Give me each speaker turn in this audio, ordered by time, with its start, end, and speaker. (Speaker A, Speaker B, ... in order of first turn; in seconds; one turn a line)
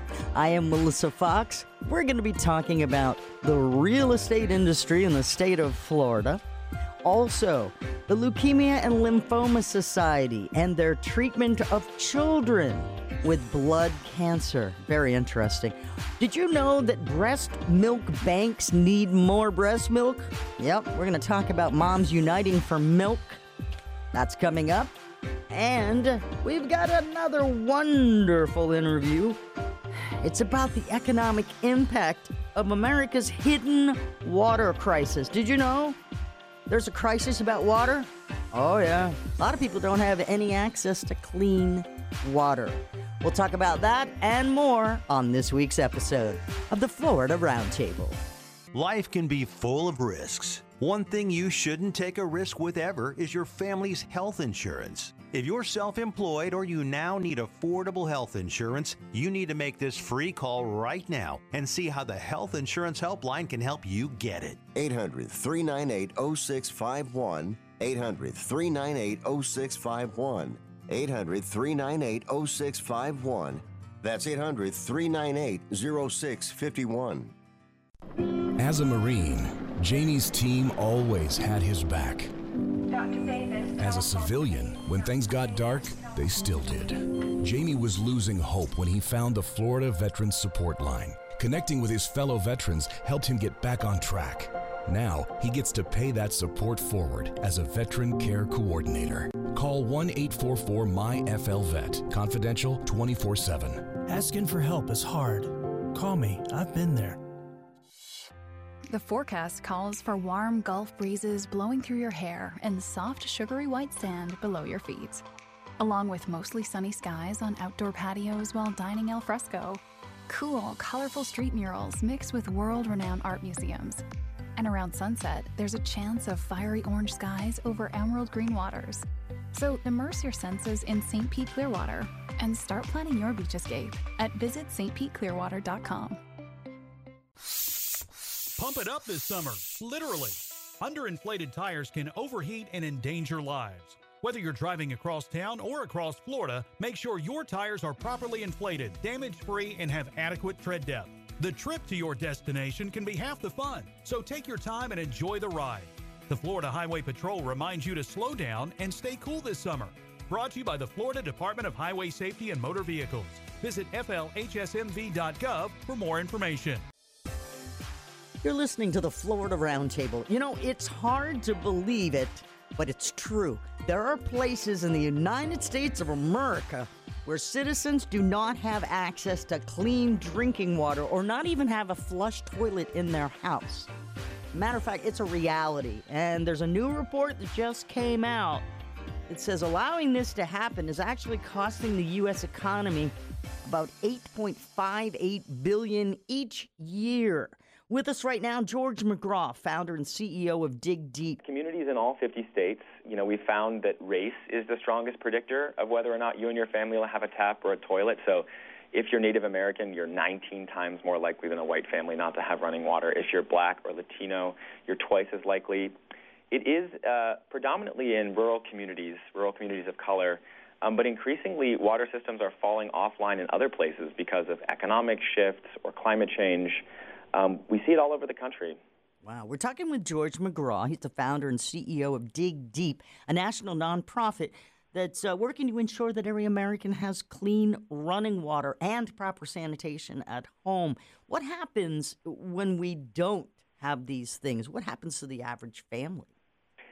Speaker A: 0.3-6.4
Speaker A: 7.0-23.4
Speaker A: 24.1-24.9
Speaker A: 25.5-29.4
Speaker A: 29.9-36.0
Speaker A: 36.7-48.2
Speaker B: 48.7-64.6
Speaker C: 64.7-77.3
Speaker D: 78.6-82.3
Speaker D: 83.7-104.0
Speaker E: 104.0-107.2
Speaker F: 108.9-115.2
Speaker F: 115.8-124.0
Speaker F: 124.6-136.2
Speaker G: 138.6-166.8
Speaker A: 168.4-183.9
Speaker A: 184.5-188.7
Speaker A: 189.3-193.1
Speaker A: 193.7-201.4
Speaker H: 201.4-215.9
Speaker H: 216.5-228.8
Speaker A: 229.2-246.3